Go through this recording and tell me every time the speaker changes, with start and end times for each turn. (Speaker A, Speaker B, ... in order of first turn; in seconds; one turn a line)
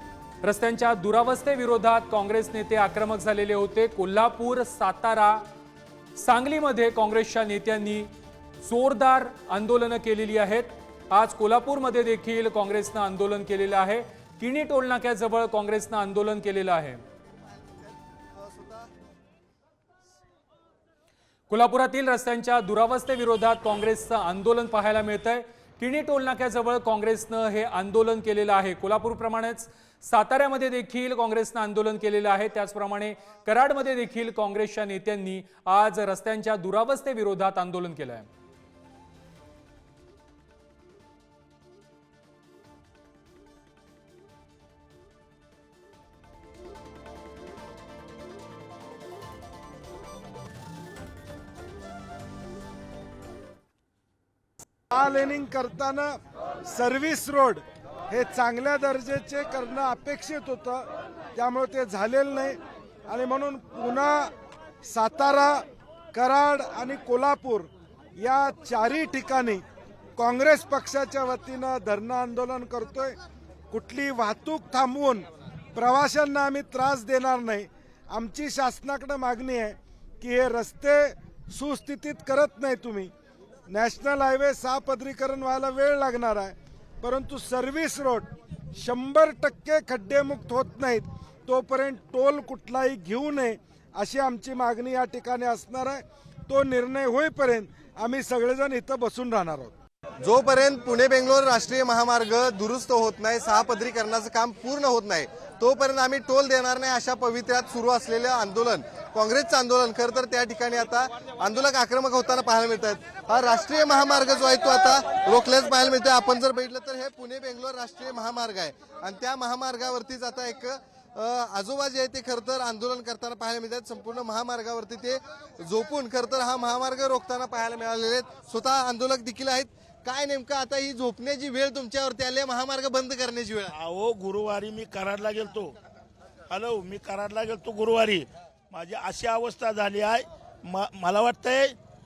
Speaker A: 0.4-5.4
Speaker A: 6.2-17.0
Speaker B: 17.3-18.9
Speaker A: 21.5-38.3
Speaker C: 54.9-69.6
Speaker C: 70.2-73.2
Speaker C: 73.7-83.1
Speaker C: 83.7-99.7
Speaker B: 100.2-133.7
Speaker D: 133.7-135.8
Speaker D: 136.5-141.8